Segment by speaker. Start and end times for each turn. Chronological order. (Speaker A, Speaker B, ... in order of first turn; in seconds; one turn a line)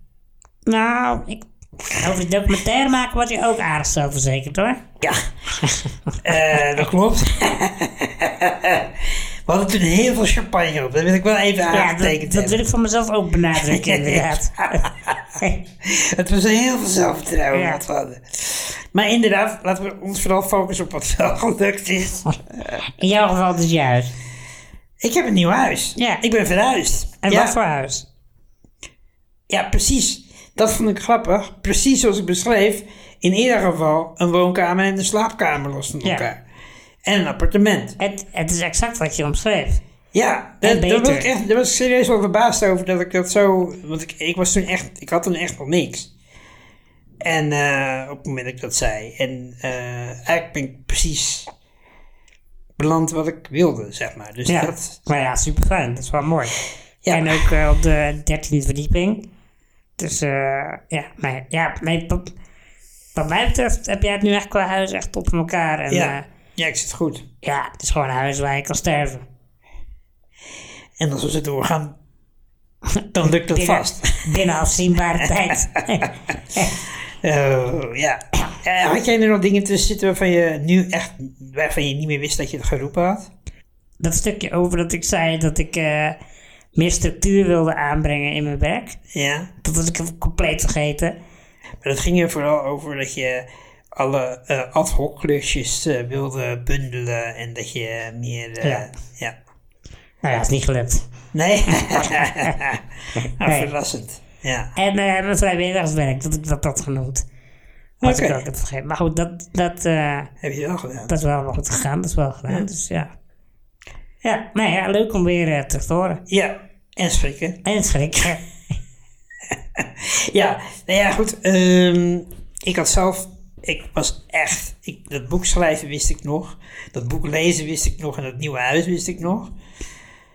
Speaker A: 0.7-4.8
Speaker B: 5.0-5.3
Speaker A: 5.6-6.2
Speaker B: 6.2-12.6
Speaker A: 11.7-14.9
Speaker B: 13.5-22.3
Speaker A: 17.5-17.8
Speaker A: 22.9-24.1
Speaker B: 25.0-27.6
Speaker A: 26.0-26.2
Speaker A: 27.2-28.1
Speaker B: 29.5-36.4
Speaker B: 37.0-38.0
Speaker A: 38.0-39.8
Speaker B: 40.1-46.1
Speaker A: 40.6-41.3
Speaker B: 47.2-51.5
Speaker B: 52.8-55.0
Speaker A: 54.5-56.6
Speaker B: 57.0-57.4
Speaker A: 57.1-59.2
Speaker A: 60.0-62.3
Speaker A: 63.1-66.2
Speaker B: 65.9-67.2
Speaker A: 67.4-69.2
Speaker B: 71.0-72.0
Speaker A: 73.0-76.7
Speaker B: 73.1-74.2
Speaker B: 75.2-76.1
Speaker B: 77.2-83.3
Speaker A: 84.0-86.2
Speaker A: 86.8-89.0
Speaker B: 89.1-89.5
Speaker A: 89.6-91.1
Speaker B: 91.8-99.3
Speaker A: 98.6-98.8
Speaker A: 100.2-101.0
Speaker B: 101.3-102.8
Speaker A: 101.7-102.5
Speaker B: 103.4-104.7
Speaker A: 103.4-103.7
Speaker A: 104.8-107.2
Speaker B: 108.0-108.4
Speaker A: 108.0-110.3
Speaker B: 110.4-111.1
Speaker A: 111.1-113.1
Speaker A: 114.2-116.2
Speaker B: 116.3-117.6
Speaker A: 117.6-118.4
Speaker B: 119.7-129.5